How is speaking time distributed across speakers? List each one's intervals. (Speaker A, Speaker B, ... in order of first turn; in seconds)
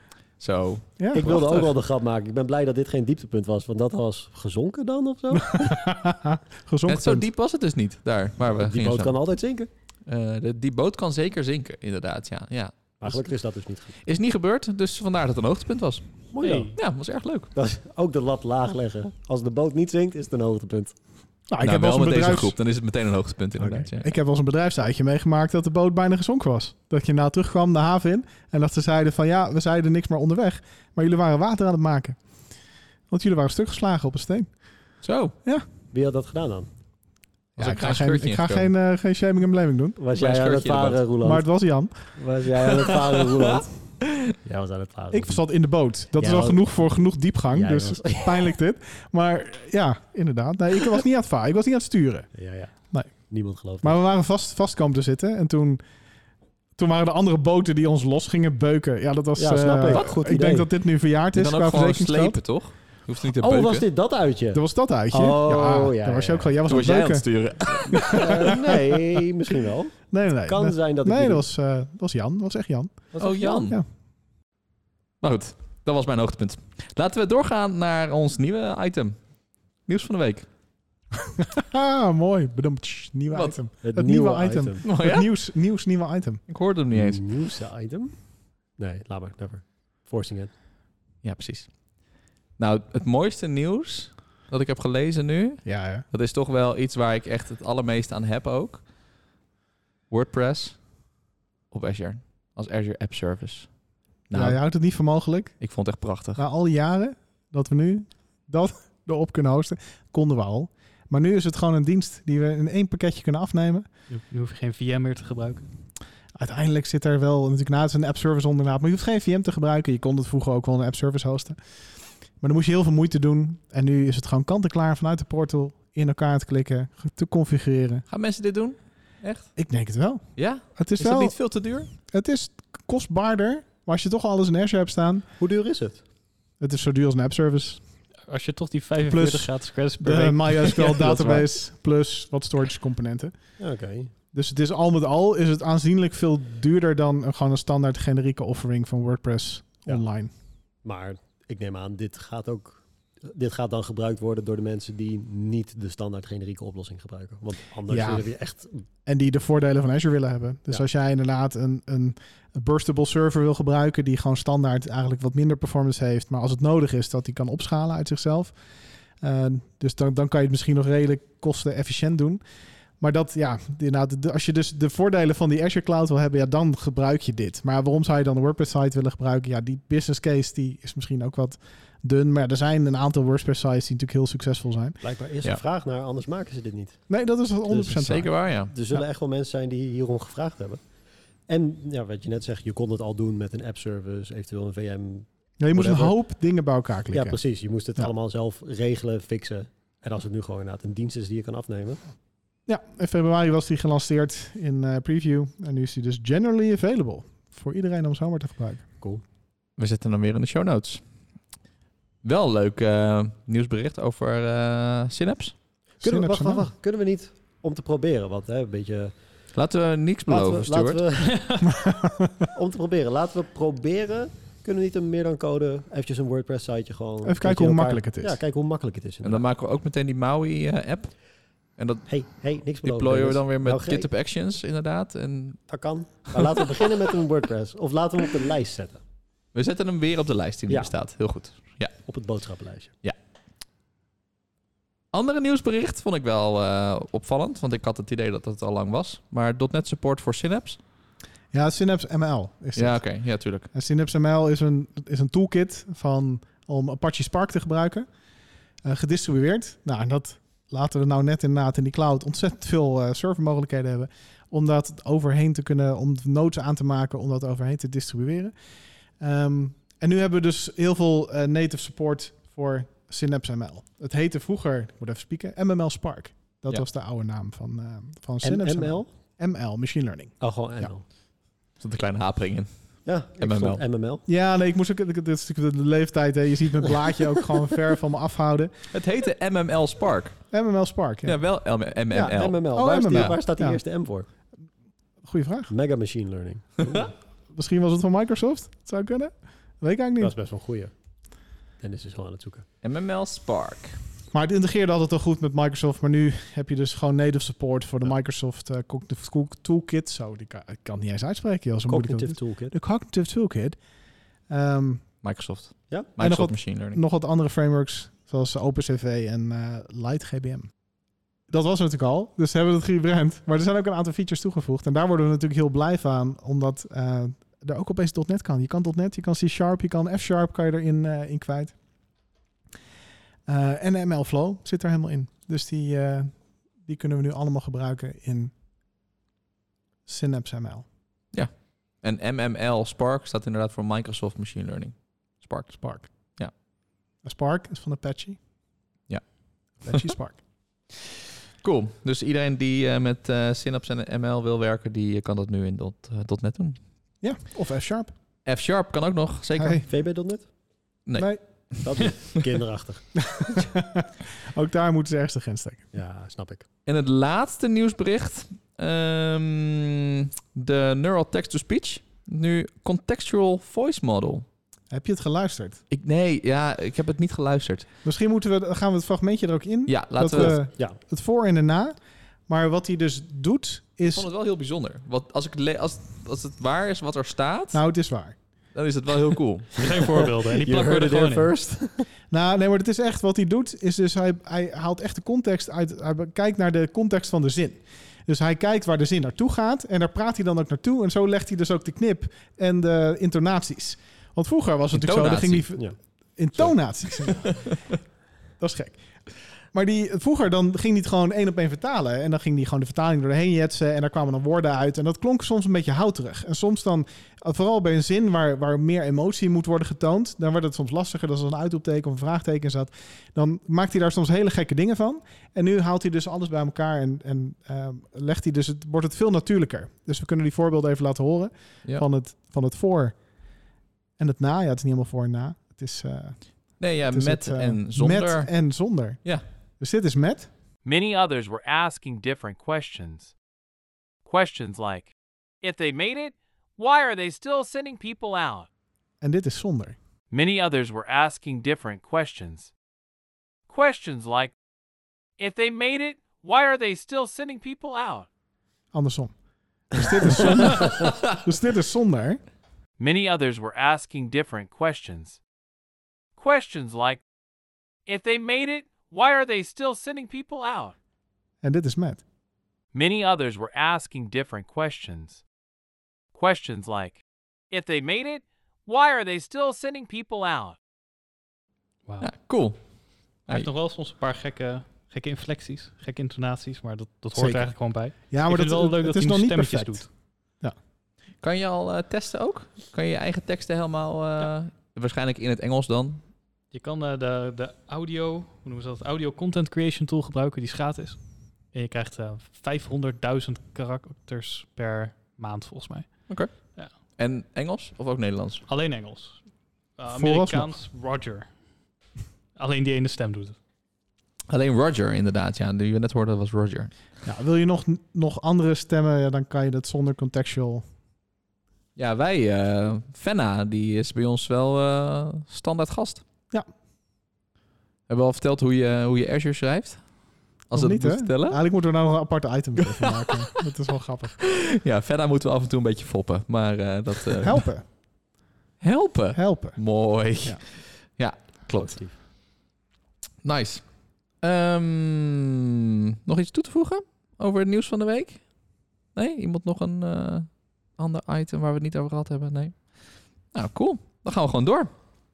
Speaker A: 0.4-1.7, 6.9-9.2, 10.1-13.3, 14.0-17.5, 21.6-24.1, 35.0-35.4, 37.5-38.7, 40.1-41.0, 43.3-44.3, 59.9-60.1, 61.3-63.9, 66.7-68.5, 73.2-73.8, 75.2-79.2, 79.8-80.5, 83.3-83.6, 84.8-85.3, 86.5-87.4, 91.2-98.8, 100.1-101.0, 101.7-103.8, 104.3-104.6, 105.6-106.4, 128.1-129.6, 130.4-131.9, 187.9-188.7, 195.8-196.1, 209.8-211.0, 212.2-215.6, 219.5-221.0, 229.2-231.2, 231.8-236.9, 239.5-242.0, 245.1-250.8, 252.8-253.7, 281.8-283.8, 288.9-290.6, 291.2-293.4, 302.8-304.0, 315.2-317.0, 341.3-345.8, 349.9-350.1, 351.6-356.8, 358.4-359.9, 361.1-362.1, 366.9-374.4, 375.9-377.9, 379.9-380.6, 384.1-387.8, 388.8-389.9, 404.9-405.7, 436.8-438.5, 482.2-482.8, 491.4-496.2, 506.3-508.6, 514.5-516.9, 522.0-526.2, 528.1-530.0, 530.7-531.6, 534.5-537.6, 538.8-542.1, 543.4-543.8, 544.4-548.5, 549.1-554.9
Speaker B: 1.0-1.2, 5.3-7.3, 21.5-22.5, 23.6-32.2, 33.1-34.6, 37.6-40.0, 41.2-42.1, 45.1-52.3, 52.9-53.3, 53.8-55.8, 56.8-62.4, 64.5-68.5, 70.1-73.1, 81.4-86.4, 95.6-96.0, 104.3-105.6, 106.4-113.9, 116.3-128.0, 129.6-135.2, 136.6-137.8, 139.1-143.6, 144.3-150.3, 157.9-158.3, 159.1-168.6, 169.2-172.4, 173.0-185.0, 187.1-188.3, 195.6-197.4, 202.7-208.8, 216.0-216.7, 221.7-222.3, 227.2-228.4, 251.5-258.1, 258.8-268.5, 269.2-280.9, 284.3-288.7, 290.5-291.4, 292.7-293.8, 295.2-295.7, 297.5-300.3, 304.3-313.8, 314.5-315.0, 316.2-320.7, 321.5-331.8, 333.5-338.5, 340.1-340.9, 345.7-346.1, 347.2-348.4, 349.8-350.4, 357.2-358.1, 359.6-359.8, 361.1-361.4, 363.3-365.9, 374.9-375.8, 378.0-384.2, 387.7-388.4, 392.3-407.8, 408.6-433.2, 434.2-439.2, 439.8-440.5, 449.2-450.0, 458.9-459.3, 459.9-462.4, 471.6-472.2, 487.3-490.8, 510.1-510.7, 517.2-520.8, 530.7-534.5, 537.4-537.9, 539.3-540.6
Speaker C: 1.1-5.8, 8.4-9.7, 13.0-14.0, 16.3-16.8, 17.5-20.9, 35.9-36.7, 40.0-41.5, 42.1-45.4, 46.2-46.8, 47.5-48.5, 52.3-53.9, 59.4-60.7, 63.4-64.6, 65.1-66.5, 67.9-71.4, 73.1-73.8, 83.8-84.8, 86.9-88.2, 88.8-90.5, 135.4-136.0, 143.6-144.1, 150.8-158.8, 185.0-187.1, 187.7-190.8, 191.5-196.1, 197.1-202.0, 216.0-219.1, 220.3-221.4, 222.5-229.4, 232.1-234.1, 235.7-239.0, 242.1-242.9, 278.4-279.1, 280.4-281.0, 283.0-284.2, 292.1-294.3, 295.7-297.1, 300.2-300.9, 301.8-302.6, 311.9-312.7, 359.9-360.5, 361.8-363.7, 365.9-366.6, 380.3-381.0, 390.5-392.1, 541.7-542.1
Speaker D: 16.4-16.8, 114.1-115.6, 138.3-141.4, 221.3-221.7, 389.8-391.5, 483.5-490.1, 496.7-501.2, 501.7-506.9, 508.6-509.4, 510.0-511.5, 512.5-513.6
Speaker E: 440.8-443.3, 444.2-448.7, 450.3-452.7, 453.7-454.5, 455.4-458.3, 463.0-465.4, 466.4-467.2, 468.1-470.9, 472.9-475.4, 476.3-480.8